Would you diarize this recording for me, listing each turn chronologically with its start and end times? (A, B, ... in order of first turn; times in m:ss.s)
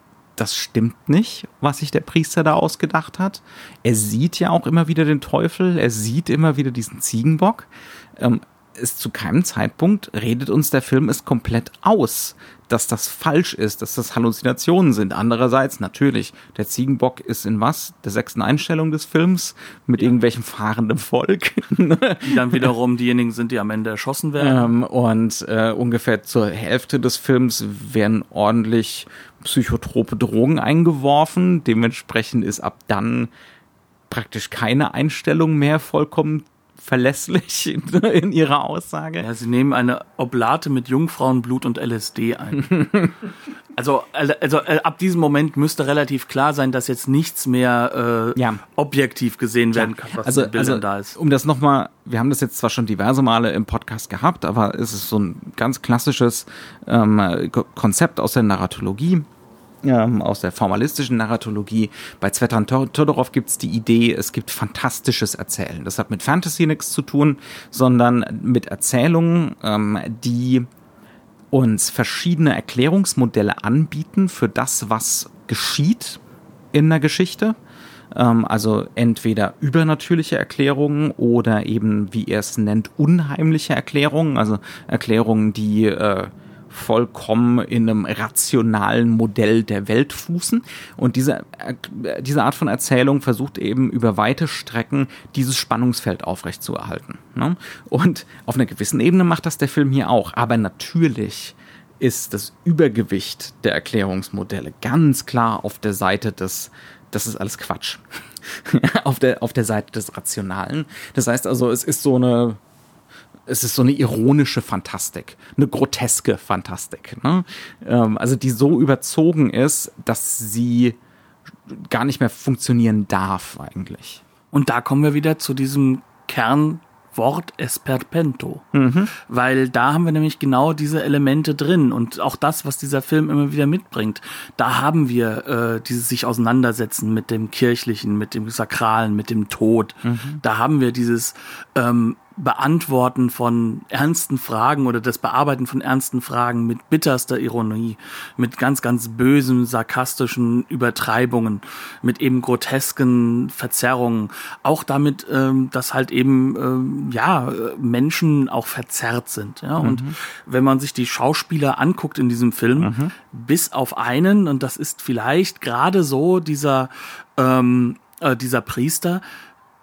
0:00.4-0:22.7 A
0:22.2-0:24.7 B
0:24.4-0:33.3 A
0:34.1-0:39.3 A
0:39.2-0:42.9 B
0:42.6-0:43.1 A
0:43.8-0:51.2 B
0:49.7-0:59.2 A
0:59.8-1:10.7 A
1:11.5-1:16.2 A
1:16.7-1:17.6 A
1:18.1-1:52.6 A
1:53.5-2:01.0 A
2:01.7-2:04.2 A
2:04.5-2:49.2 B
2:08.7-2:09.1 A
2:20.0-2:20.4 A
2:39.8-2:40.1 A
2:42.8-2:43.1 A